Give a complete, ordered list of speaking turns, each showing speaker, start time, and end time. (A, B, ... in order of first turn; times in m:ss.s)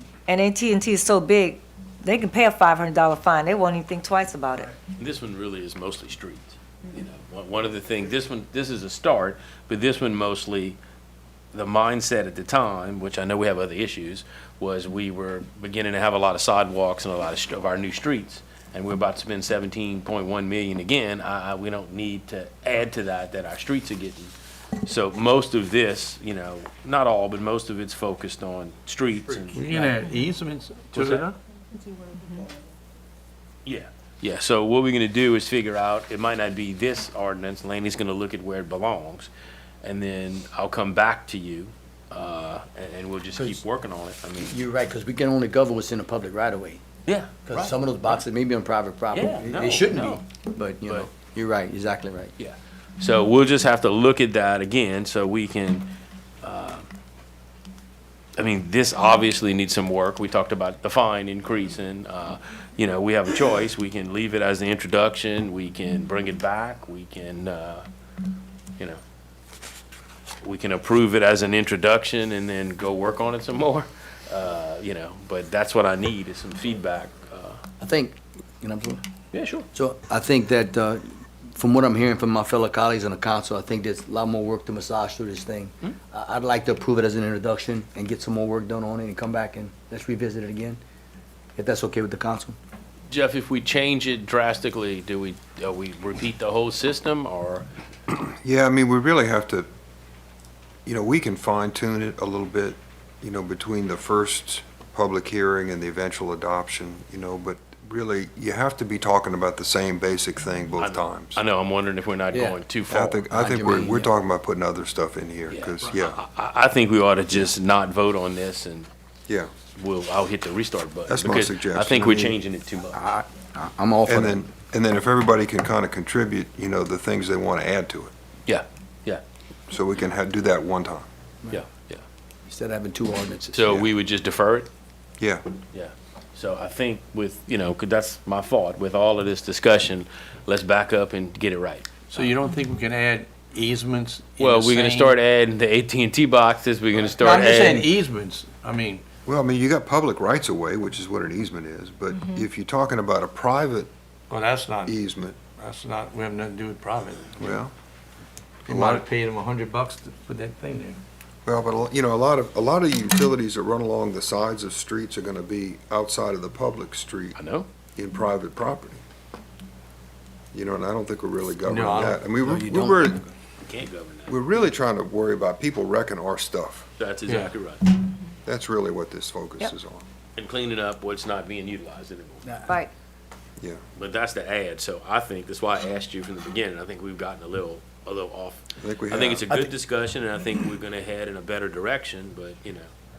0:00.3-0:04.7 A
0:05.0-0:10.8 B
0:11.5-0:30.1 B
0:29.5-0:31.4 C
0:30.9-0:31.2 B
0:33.6-0:39.3 B
0:39.8-0:44.6 B
0:43.4-0:43.6 D
0:44.4-0:46.8 D
0:47.0-0:47.7 B
0:47.5-0:52.3 D
0:49.1-0:50.2 B
0:52.4-0:55.9 B
0:56.4-0:56.9 B
0:58.4-1:07.8 B
1:10.4-1:17.6 B
1:17.8-1:19.0 D
1:19.3-1:19.6 B
1:19.7-1:30.8 D
1:31.6-1:32.6 D
1:33.1-1:37.7 B
1:38.3-1:39.7 E
1:40.8-1:51.4 E
1:50.8-1:53.9 B
1:52.3-1:52.6 D
1:52.9-1:56.2 E
1:53.3-1:54.1 D
1:55.5-1:58.9 B
1:59.7-2:03.0 B
2:01.1-2:02.4 E
2:02.9-2:04.5 D
2:04.1-2:08.1 E
2:08.5-2:09.2 B
2:09.7-2:11.0 E
2:11.5-2:12.0 B
2:12.5-2:13.6 D
2:13.5-2:14.7 B
2:15.2-2:15.4 E
2:15.7-2:22.2 B
2:22.1-2:25.2 C
2:24.4-2:27.9 B
2:27.2-2:29.0 C
2:29.2-2:33.9 E
2:34.3-2:35.0 C
2:34.8-2:35.4 E
2:35.6-2:37.6 C
2:37.3-2:37.7 E
2:38.6-2:41.0 C
2:38.7-2:39.0 E
2:41.4-2:47.4 E
2:47.3-2:47.7 B
2:48.0-2:49.0 E
2:50.5-2:53.3 E
2:51.6-2:52.8 C
2:51.7-2:53.2 D
2:53.7-2:54.4 B
2:54.3-2:56.9 E
2:57.0-2:57.9 B
2:57.3-2:57.5 C
2:58.4-3:00.0 E
3:00.4-3:02.4 B
3:02.4-3:02.8 D
3:04.0-3:12.9 B
3:08.8-3:09.6 E